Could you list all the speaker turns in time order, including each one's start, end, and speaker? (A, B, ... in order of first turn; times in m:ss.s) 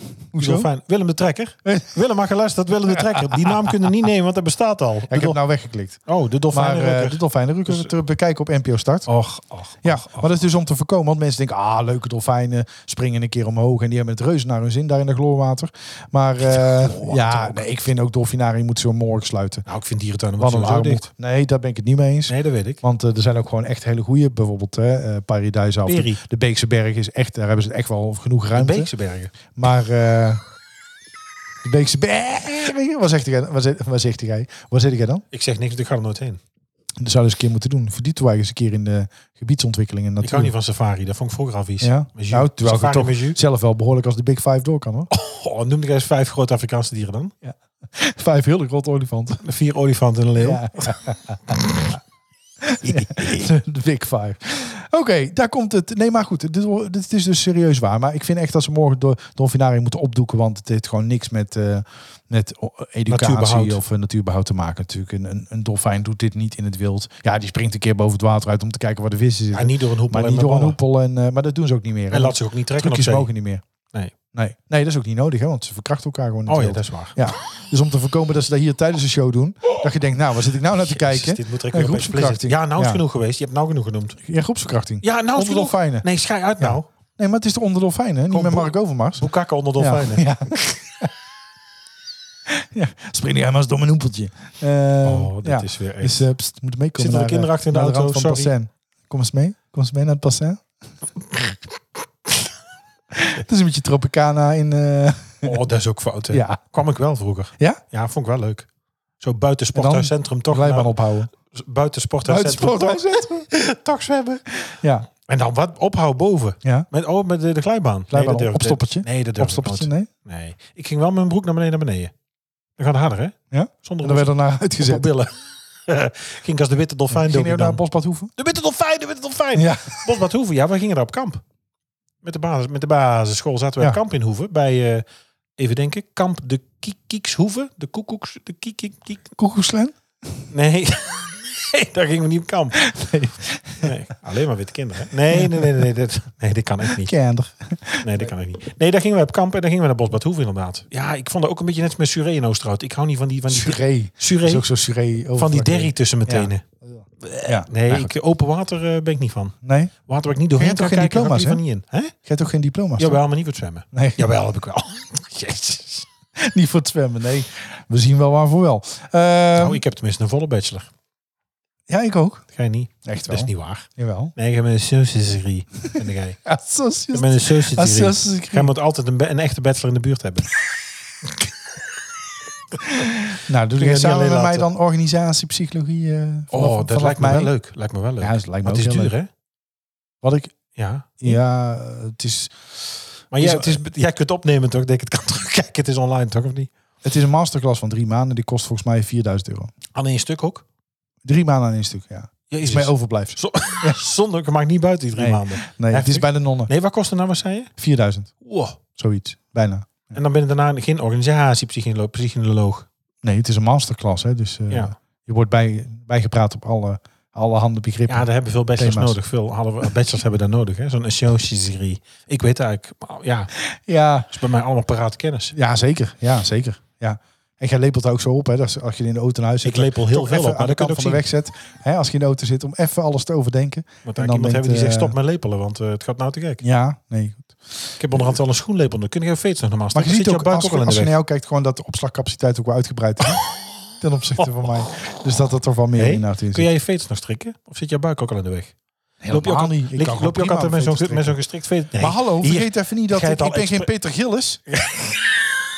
0:00.3-0:00.7 A
0:00.4-0:05.4 B
0:01.6-0:02.0 A
0:05.1-0:06.0 A
0:06.1-0:07.9 B
0:06.5-0:09.1 A
0:09.1-0:10.4 B
0:09.8-0:19.6 A
0:16.5-0:17.7 B
0:19.6-0:21.0 B
0:20.4-0:28.9 A
0:22.3-0:22.8 B
0:25.9-0:26.2 B
0:28.6-0:29.3 B
0:29.5-0:30.4 A
0:31.6-0:35.2 A
0:35.3-0:36.4 B
0:37.0-0:40.5 A
0:40.2-0:43.4 B
0:41.8-0:45.1 A
0:45.1-0:47.3 B
0:47.4-0:49.4 A
0:49.4-0:51.0 B
0:50.4-0:51.6 A
0:51.5-0:52.0 B
0:52.6-1:13.6 A
0:52.8-0:53.5 B
1:03.1-1:03.8 B
1:09.5-1:10.8 B
1:12.1-1:13.3 B
1:14.3-1:23.0 A
1:16.5-1:17.2 B
1:20.7-1:24.2 B
1:24.2-1:26.0 A
1:25.0-1:26.9 B
1:26.6-1:31.1 A
1:28.3-1:30.3 B
1:32.5-1:40.6 A
1:35.0-1:36.2 B
1:37.0-1:38.5 B
1:43.1-1:45.6 A
1:45.4-1:48.7 B
1:46.3-1:46.6 A
1:49.2-1:50.9 B
1:49.7-1:51.3 A
1:51.4-2:02.1 B
1:52.2-1:53.5 A
1:54.8-1:55.0 A
1:58.1-2:00.1 A
2:02.8-2:05.3 B
2:03.5-2:05.1 A
2:05.9-2:07.8 B
2:07.1-2:08.3 A
2:08.4-2:11.4 B
2:09.6-2:10.1 A
2:12.2-2:15.0 B
2:15.6-2:19.3 B
2:19.4-2:19.9 A
2:20.5-2:22.9 B
2:22.8-2:23.9 A
2:23.8-2:27.1 B
2:26.9-2:28.2 A
2:28.0-2:34.6 B
2:33.5-2:38.1 A
2:35.4-2:36.6 B
2:37.2-2:39.6 B
2:39.6-2:39.9 A
2:40.1-2:42.1 B
2:40.6-2:41.6 A
2:42.2-2:43.2 A
2:43.0-2:46.0 B
2:43.9-2:44.3 A
2:46.4-2:49.8 A
2:49.6-2:50.9 B
2:51.9-2:52.4 A
2:52.5-2:56.4 B
2:53.0-2:54.3 A
2:56.4-2:58.7 A
2:57.1-3:00.5 B
3:02.9-3:07.5 A
3:03.8-3:04.7 B
3:06.5-3:09.3 B
3:08.2-3:09.1 A
3:10.2-3:10.6 A
3:10.8-3:11.4 B
3:11.2-3:12.5 A
3:13.3-3:16.7 B
3:13.4-3:13.8 A
3:17.0-3:19.7 A
3:19.9-3:20.6 B
3:21.2-3:24.0 A
3:22.5-3:27.7 B
3:25.2-3:26.7 A
3:27.8-3:28.3 A
3:28.4-3:28.8 B
3:28.9-3:30.2 A
3:30.1-3:32.9 B
3:33.2-3:39.2 A
3:38.1-3:43.5 B
3:43.7-3:44.3 A
3:44.3-3:45.5 B
3:45.5-3:55.1 A
3:49.6-3:51.2 B
3:54.0-3:56.6 B
3:56.6-3:57.6 A
3:58.0-4:01.1 B
3:59.9-4:03.4 A
4:04.0-4:06.7 A
4:06.0-4:08.7 B
4:09.2-4:11.4 A
4:09.3-4:13.9 B
4:12.0-4:14.6 A
4:14.7-4:15.4 B